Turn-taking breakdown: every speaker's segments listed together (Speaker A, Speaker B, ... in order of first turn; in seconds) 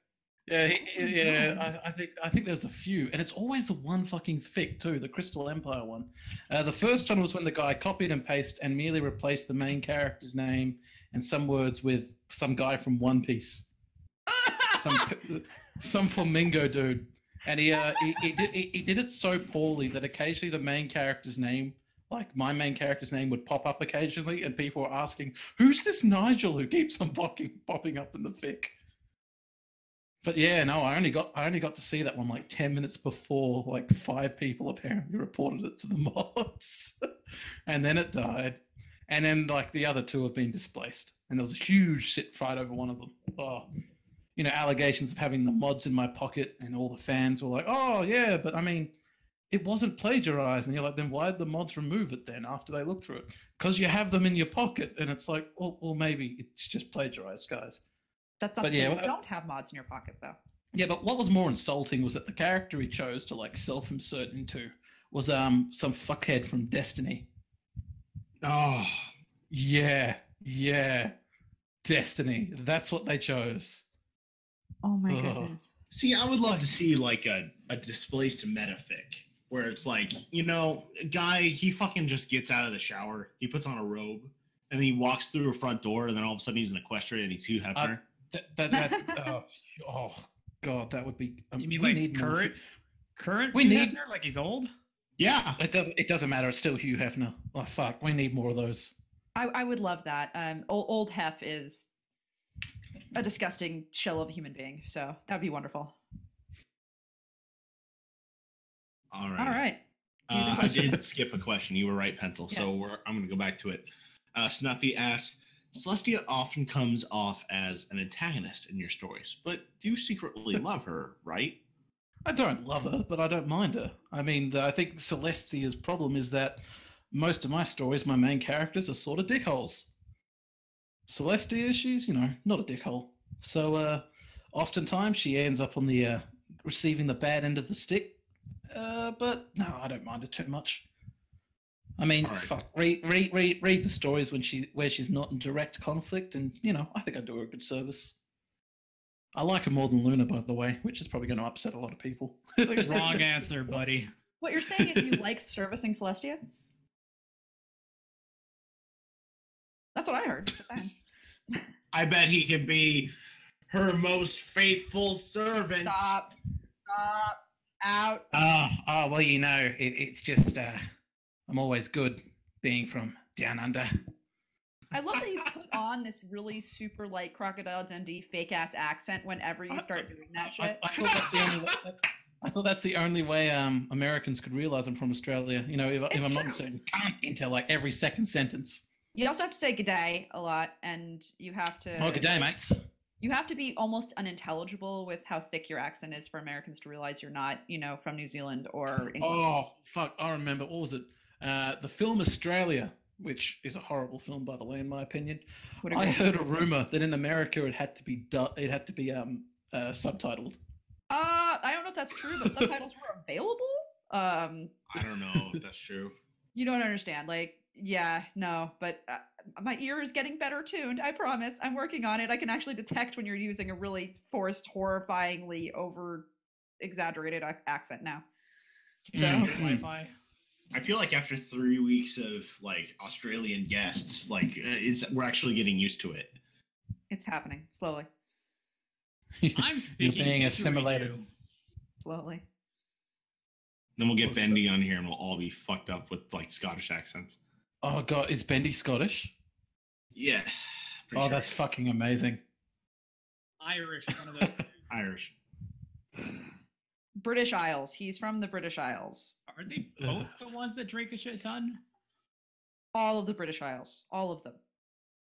Speaker A: 0.5-13.7, 14.7-28.7, 30.2-43.6, 44.4-48.9, 49.5-57.8, 58.6-59.1, 60.7-67.2, 69.5-71.1, 71.8-73.8, 75.1-75.5, 87.7-92.5, 93.5-94.0, 95.6-98.9, 122.2-126.5, 127.1-129.9, 131.1-138.1, 138.7-140.8, 142.0-148.1, 149.3-153.2, 154.8-155.2, 168.3-170.8, 171.5-173.9, 179.7-188.8, 192.0-192.8, 199.2-210.6, 229.2-229.8, 239.4-241.1, 244.2-244.6, 247.8-249.3, 251.1-252.4
Speaker B: 0.8-1.7, 14.3-15.1, 17.8-18.4, 58.4-60.4, 74.8-75.6, 88.7-89.3, 99.3-101.9, 103.1-105.9, 109.4-109.8, 110.3-111.0, 152.6-153.3, 154.4-156.4, 159.9-160.9, 165.8-166.3, 166.9-168.2, 174.9-180.8, 186.1-186.6, 189.1-192.5, 193.2-199.4, 205.8-206.2, 211.1-214.7, 216.5-226.2, 226.8-228.2, 229.1-229.5, 237.1-238.1, 242.0-242.4, 257.2-259.4, 262.9-264.6
Speaker C: 68.4-69.1, 75.9-88.0, 95.2-95.6, 109.1-109.6, 110.3-121.5, 142.2-142.5, 161.9-163.1, 163.7-166.1, 181.0-181.8, 214.9-216.1, 229.2-229.6, 230.7-236.3, 244.0-247.4, 250.1-250.5, 251.1-251.5, 254.9-255.3
Speaker D: 91.6-92.5, 93.2-94.7, 152.8-154.1, 229.1-230.1, 239.5-241.2, 253.6-254.6, 259.5-261.8